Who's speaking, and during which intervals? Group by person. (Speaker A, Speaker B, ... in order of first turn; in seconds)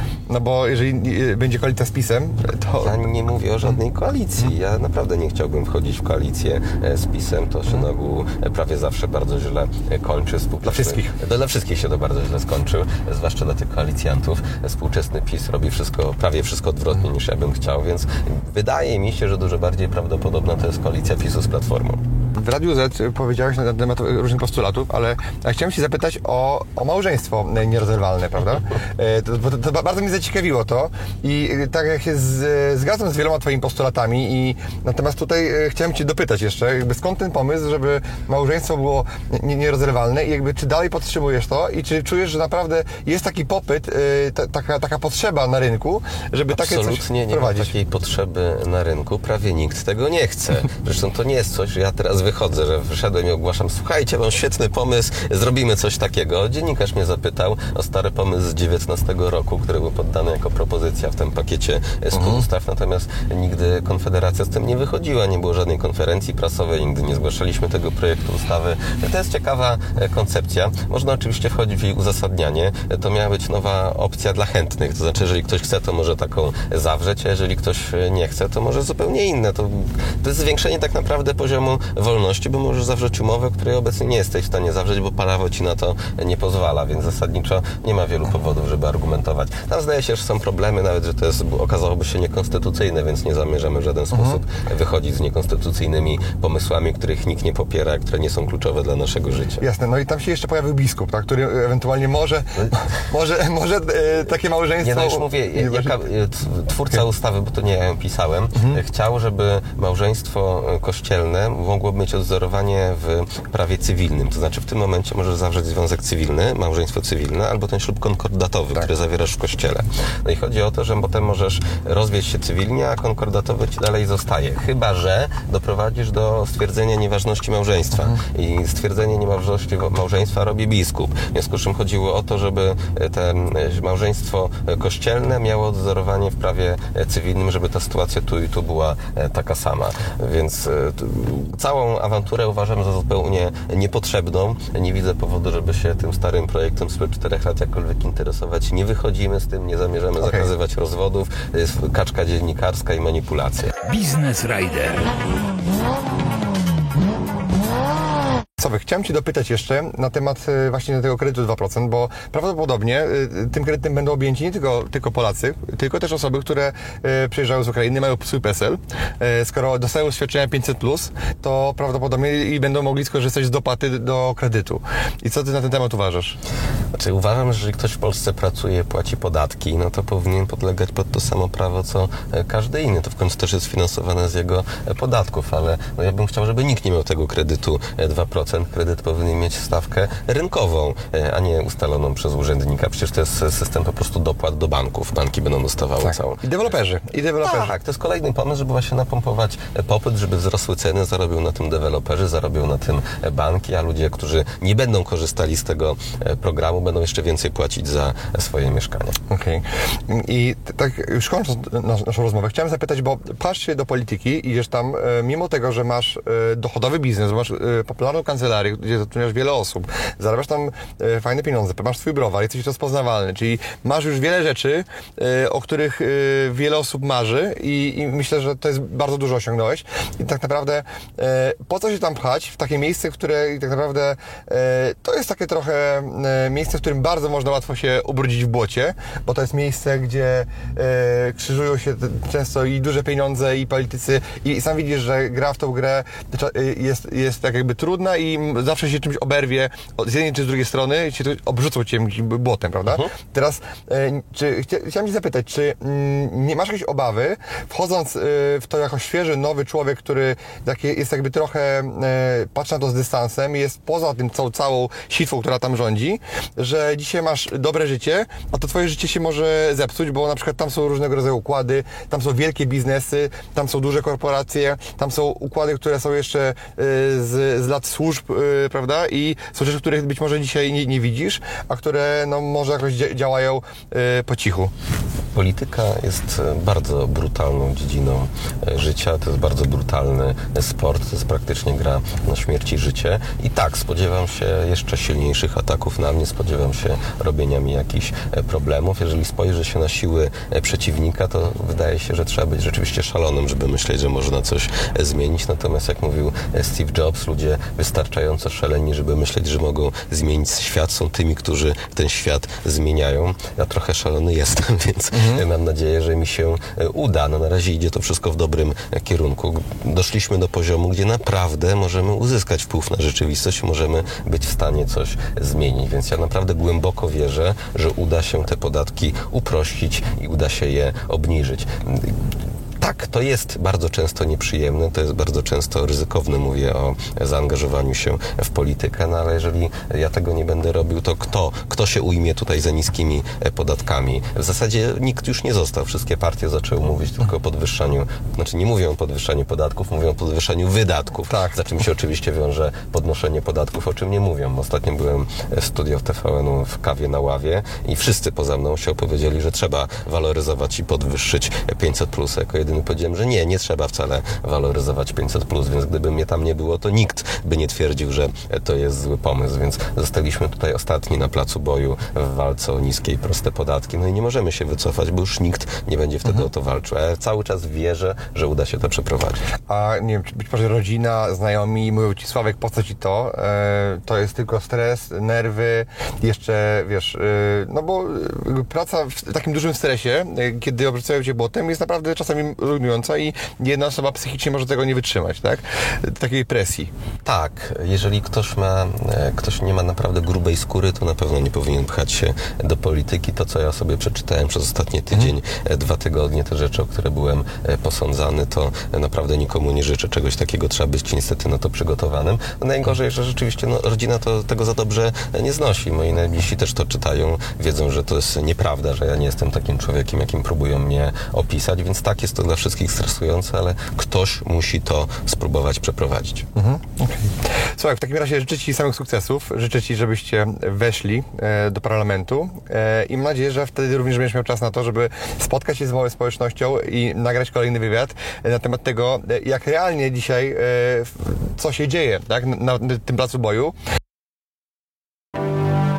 Speaker A: 0.3-3.0, 10.7-11.1, 22.4-47.7, 62.1-62.5, 94.1-94.4, 99.6-106.0, 150.2-150.5, 158.6-176.4, 196.0-197.7, 209.3-284.7, 315.1-315.4, 351.3-351.6, 379.7-396.9, 426.6-443.8
Speaker B: 2.8-22.0, 46.5-99.6, 102.6-102.9, 104.8-153.8, 176.9-196.4, 197.4-209.2, 285.3-332.2, 332.8-379.4, 397.2-426.4
Speaker C: 153.8-155.9